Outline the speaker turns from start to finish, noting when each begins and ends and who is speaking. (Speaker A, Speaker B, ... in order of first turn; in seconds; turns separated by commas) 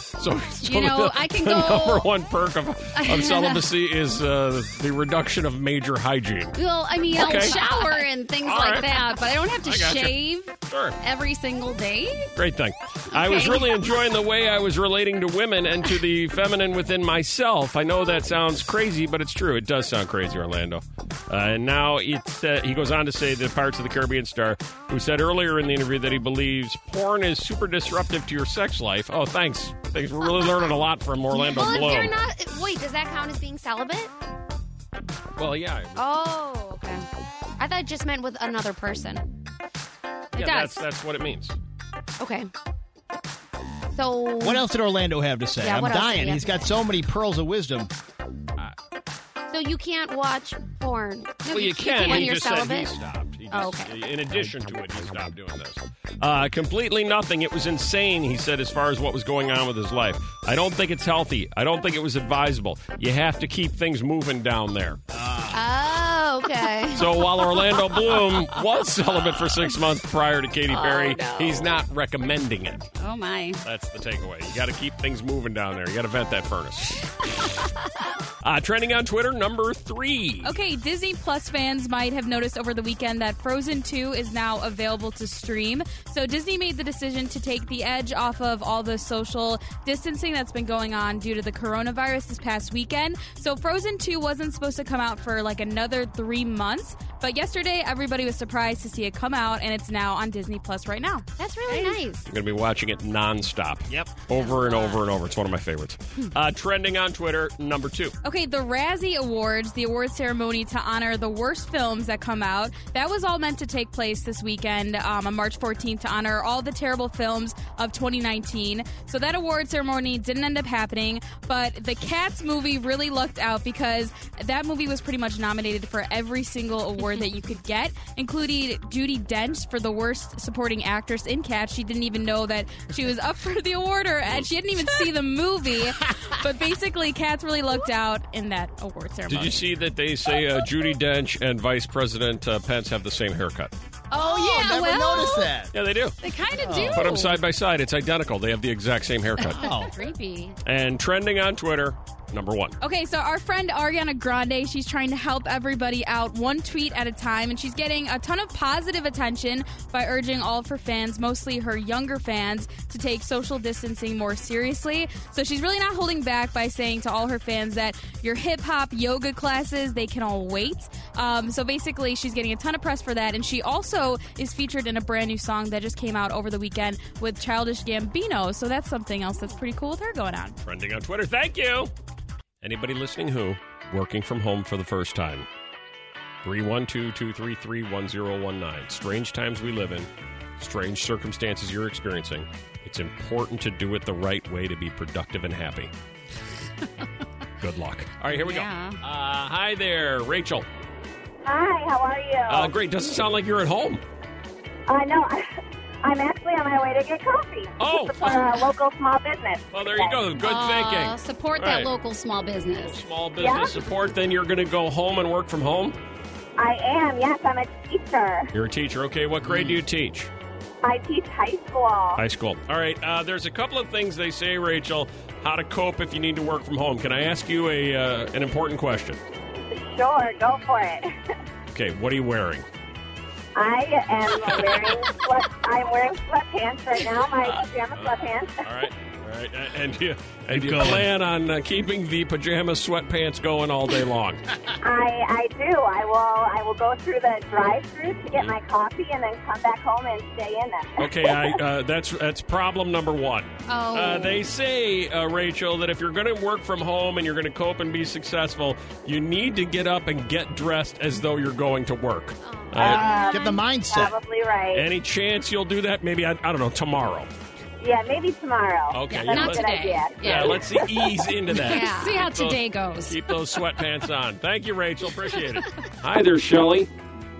Speaker A: 0.2-6.6, Speaker B: 0.6-2.1, Speaker B: 3.0-3.6, Speaker B: 6.5-12.3, Speaker A: 7.1-7.6, Speaker A: 8.4-11.0, Speaker A: 12.3-32.1, Speaker B: 13.1-13.8, Speaker C: 31.3-34.1, Speaker A: 35.4-36.0, Speaker C: 36.0-37.1, Speaker C: 37.6-39.2, Speaker A: 40.3-41.5, Speaker B: 40.4-40.8, Speaker C: 42.2-42.5, Speaker C: 43.9-44.7, Speaker D: 44.4-47.9, Speaker C: 45.6-46.6, Speaker C: 49.5-52.9, Speaker A: 51.5-65.0, Speaker C: 53.5-54.0, Speaker D: 65.1-65.6, Speaker C: 65.5-67.2, Speaker A: 66.9-72.9, Speaker C: 70.7-71.8, Speaker B: 73.0-73.6, Speaker A: 73.6-77.1, Speaker A: 78.4-80.5, Speaker E: 80.4-101.2, Speaker C: 101.4-102.2, Speaker A: 102.2-108.1, Speaker E: 108.2-139.6, Speaker A: 139.3-143.7, Speaker B: 144.1-145.5, Speaker D: 144.1-145.7, Speaker A: 145.7-146.2, Speaker B: 146.2-147.4, Speaker D: 146.6-147.1, Speaker A: 146.9-149.7, Speaker D: 149.5-149.9, Speaker B: 149.6-150.6, Speaker C: 150.0-150.3, Speaker A: 150.6-152.8, Speaker E: 152.8-180.6, Speaker A: 180.6-181.9, Speaker A: 182.6-185.5, Speaker A: 186.4-195.9, Speaker A: 197.6-200.7, Speaker B: 198.3-199.0, Speaker F: 201.4-202.7, Speaker A: 202.5-204.0, Speaker F: 204.9-210.2, Speaker A: 207.8-208.6, Speaker A: 209.7-211.9, Speaker B: 210.4-213.0, Speaker A: 212.7-216.0, Speaker F: 213.4-213.8, Speaker F: 216.6-218.5, Speaker A: 218.5-220.3, Speaker D: 219.4-219.8, Speaker F: 220.8-222.2, Speaker A: 222.2-229.2, Speaker F: 229.7-231.1, Speaker A: 231.7-232.7, Speaker F: 233.6-238.6, Speaker A: 237.9-244.4, Speaker D: 240.5-241.1, Speaker F: 244.8-251.6, Speaker A: 251.0-263.1, Speaker C: 253.7-254.0, Speaker B: 253.7-254.4, Speaker C: 262.4-263.4, Speaker F: 262.8-264.9, Speaker D: 262.8-264.1, Speaker A: 264.7-267.3, Speaker F: 267.8-270.7, Speaker A: 268.9-276.9, Speaker B: 269.1-270.8, Speaker B: 271.5-273.4, Speaker C: 271.6-272.3